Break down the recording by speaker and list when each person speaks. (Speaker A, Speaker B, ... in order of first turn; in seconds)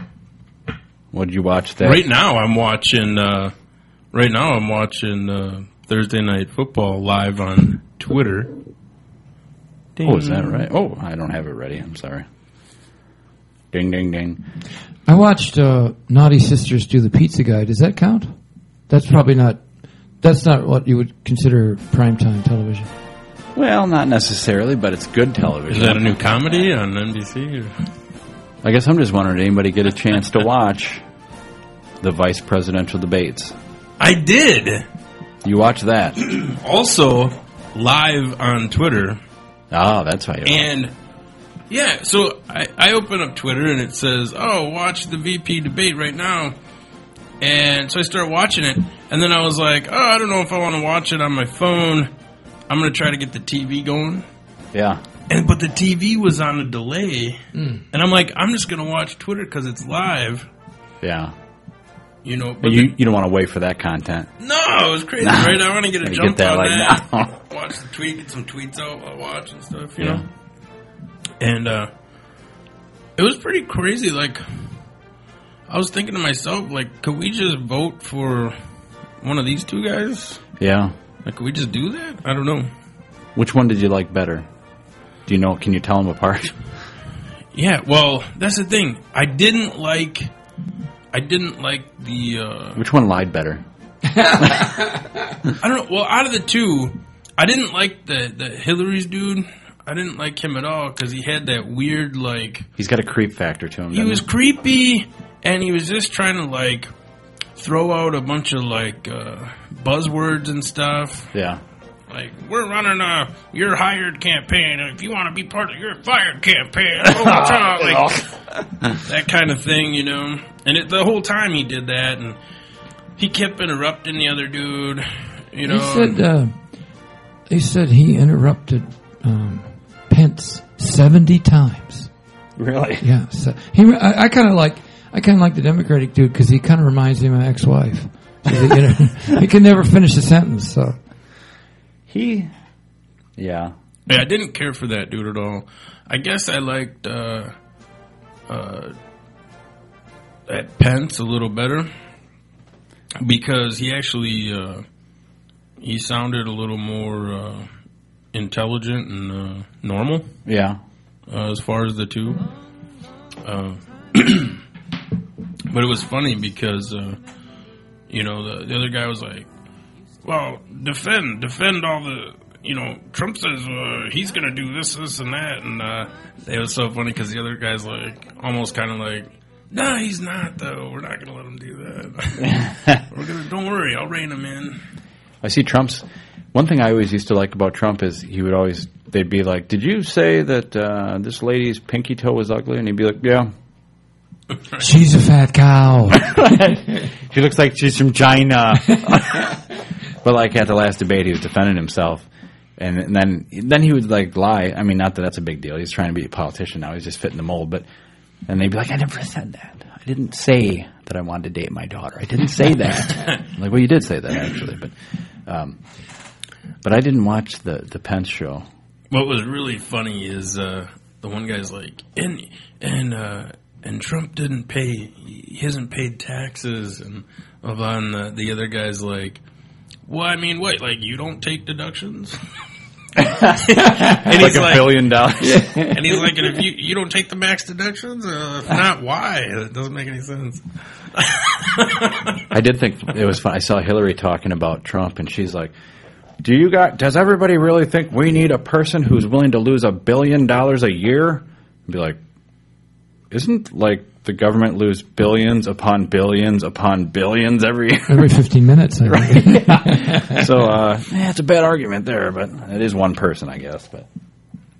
Speaker A: 1.1-2.0, 10.0-12.2, 13.7-14.4, 23.5-26.3, 28.6-31.0, 32.0-33.5, 35.4-36.2, 39.7-40.7, 54.7-55.0, 61.0-61.3, 62.6-64.3, 65.2-67.3, 70.0-70.2, 80.6-80.9, 83.3-84.5, 85.2-86.6, 92.8-93.6, 94.2-94.7, 102.8-104.2, 111.3-111.6, 117.1-118.2, 132.6-133.0, 142.1-142.5, 143.4-143.7, 160.4-160.8, 182.6-183.0, 185.4-193.5, 196.1-199.6, 200.2-202.3, 202.8-207.8, 208.5-214.9, 215.4-215.8, 216.8-218.7, 233.2-235.7, 242.5-245.7, 246.4-252.2, 253.3-258.3, 259.1-264.1
Speaker B: 1.8-3.5, 4.1-8.5, 10.0-10.7, 25.7-27.7, 34.0-34.8, 36.2-39.2, 40.4-40.9, 41.7-46.5, 47.4-52.1, 52.7-54.2, 55.3-57.4, 57.9-60.5, 62.2-62.9, 64.4-70.2, 71.4-71.9, 73.2-74.4, 75.7-78.5, 79.2-80.4, 81.2-82.7, 87.5-90.3, 91.1-92.8, 95.6-102.7, 103.9-106.9, 107.6-111.3, 112.1-118.2, 118.9-122.4, 123.2-126.2, 144.1-147.5, 148.5-148.9, 150.5-151.9, 153.2-154.8, 155.8-157.7, 158.3-160.3, 161.3-162.4, 163.4-164.6, 165.7-167.2, 168.1-169.5, 170.2-184.8, 219.1-229.4, 230.1-232.4, 233.7-235.3, 235.9-240.6, 241.2-242.2
Speaker C: 15.1-18.3, 18.9-19.6, 20.2-22.9, 57.5-57.8, 125.7-126.5, 127.5-132.1, 133.0-140.9, 194.8-196.3, 235.4-236.0, 258.1-260.4